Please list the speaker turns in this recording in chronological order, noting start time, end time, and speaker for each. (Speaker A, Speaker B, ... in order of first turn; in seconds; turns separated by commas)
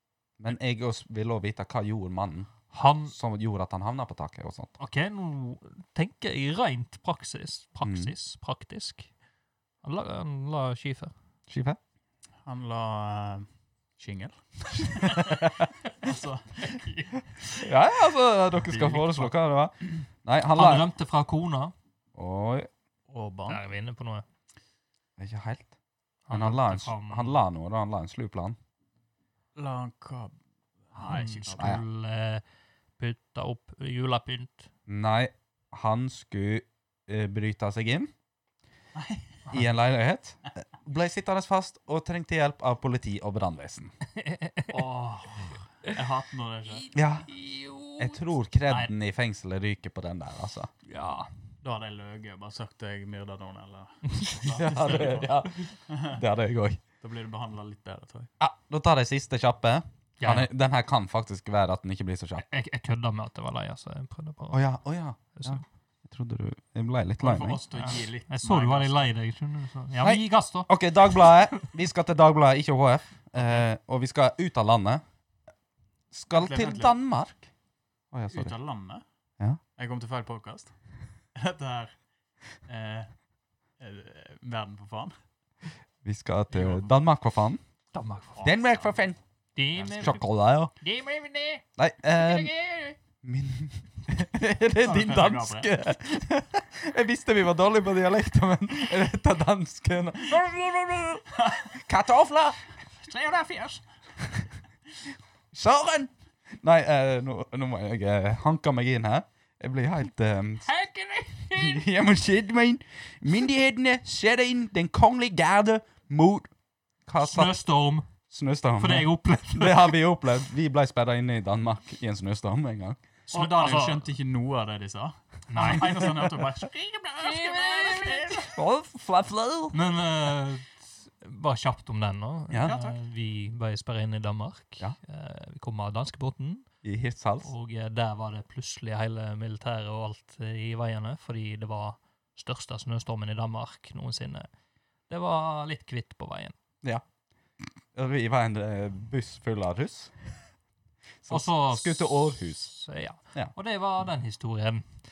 Speaker A: 0.4-4.7, Speaker B: 2.7-3.1, Speaker B: 4.8-9.1, Speaker A: 7.8-8.1, Speaker B: 9.8-11.1, Speaker A: 11.5-11.8, Speaker C: 12.5-16.9, Speaker A: 15.1-15.7, Speaker B: 16.6-17.2, Speaker A: 17.6-20.9, Speaker C: 18.6-19.3, Speaker B: 20.5-21.7, Speaker A: 22.1-22.7, Speaker C: 23.1-23.6, Speaker B: 23.5-24.2, Speaker A: 25.2-25.7, Speaker B: 26.3-27.4, Speaker A: 26.3-28.6, Speaker C: 29.6-30.4, Speaker C: 30.9-31.8, Speaker B: 31.0-32.4, Speaker A: 31.6-31.8, Speaker B: 33.0-34.7, Speaker A: 34.9-38.1, Speaker C: 39.0-39.5, Speaker A: 39.5-43.9, Speaker B: 44.2-45.9, Speaker C: 44.7-46.9, Speaker B: 46.7-48.9, Speaker A: 46.9-47.3, Speaker A: 48.0-50.7, Speaker B: 50.9-51.3, Speaker C: 51.6-56.2, Speaker B: 54.1-54.8, Speaker A: 54.5-56.8, Speaker C: 57.0-58.3, Speaker A: 58.4-62.5, Speaker B: 60.2-60.5, Speaker B: 62.4-64.7, Speaker A: 64.5-67.6, Speaker B: 65.3-65.6, Speaker C: 67.2-69.1, Speaker B: 67.7-71.6, Speaker A: 70.0-75.0, Speaker A: 76.1-77.5, Speaker C: 76.3-77.0, Speaker A: 78.1-78.5, Speaker C: 78.3-79.0, Speaker C: 79.8-80.7, Speaker C: 81.3-82.0, Speaker C: 82.7-83.1, Speaker C: 83.8-85.1, Speaker A: 86.0-87.6, Speaker C: 86.5-86.9, Speaker B: 87.9-88.5, Speaker C: 88.4-89.0, Speaker A: 88.4-89.2, Speaker B: 89.6-91.6, Speaker C: 89.8-90.2, Speaker A: 90.0-90.7, Speaker A: 91.8-92.5, Speaker B: 92.2-93.0, Speaker A: 93.2-101.2, Speaker C: 94.8-95.7, Speaker C: 101.3-101.8, Speaker A: 101.8-102.6, Speaker C: 103.0-104.4, Speaker A: 105.5-110.7, Speaker B: 110.7-111.8, Speaker A: 111.5-116.5, Speaker A: 117.1-117.6, Speaker B: 117.2-118.1, Speaker A: 118.2-123.0, Speaker B: 118.8-120.0, Speaker B: 123.3-124.0, Speaker C: 123.3-128.5, Speaker B: 125.5-126.3, Speaker A: 125.6-126.3, Speaker B: 127.2-128.5, Speaker A: 128.5-129.8, Speaker B: 129.7-136.7, Speaker A: 132.5-132.8, Speaker C: 132.6-133.0, Speaker A: 136.8-137.5, Speaker B: 137.4-144.5, Speaker B: 145.1-146.6, Speaker A: 147.9-150.2, Speaker A: 151.2-152.7, Speaker B: 151.3-155.0